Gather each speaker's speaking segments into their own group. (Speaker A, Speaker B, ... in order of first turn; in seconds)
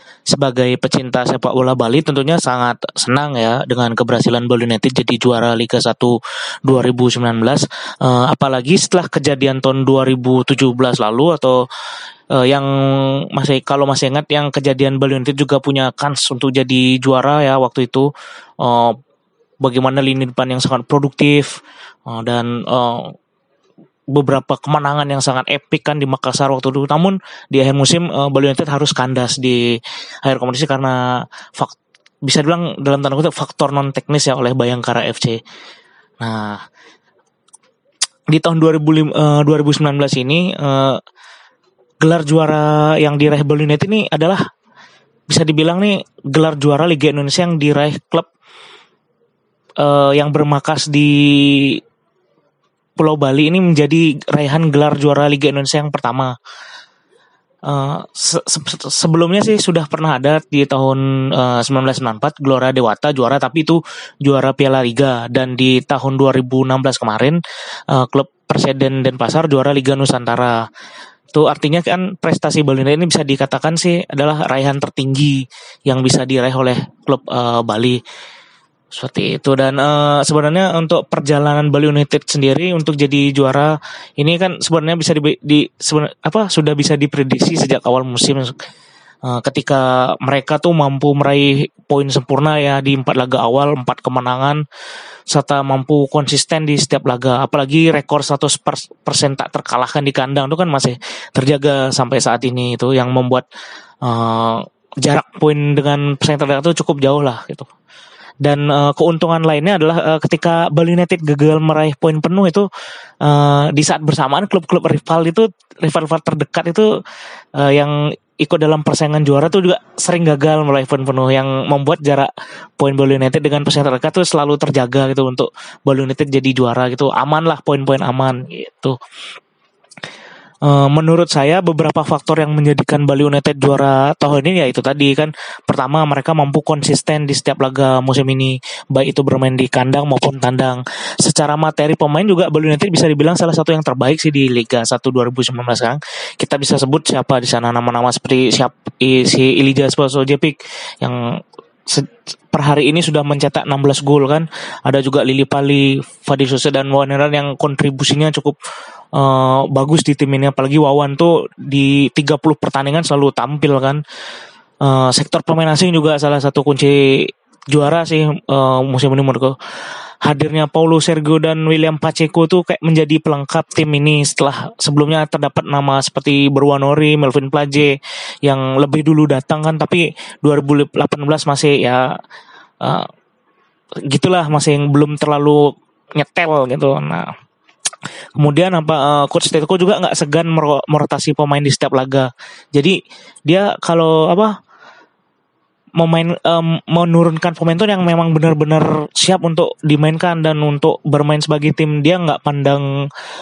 Speaker A: 0.3-11.6, 12.3-18.1, 18.6-18.9, 19.6-21.6, 22.1-23.1, 24.1-29.6, 30.2-31.0, 31.6-35.4, 36.2-36.6, 38.3-41.0, 42.0-44.4, 45.3-48.3, 49.8-51.8, 53.0-56.3, 57.7-67.4, 67.9-70.6, 71.3-78.0, 78.9-88.5, 89.2-94.6, 95.3-103.4, 104.0-107.7, 108.4-112.7, 113.2-116.9, 117.5-129.0, 130.6-158.6, 159.1-164.0, 164.8-169.5, 170.2-182.1, 182.8-183.1, 184.1-187.3, 188.4-194.5, 196.0-202.8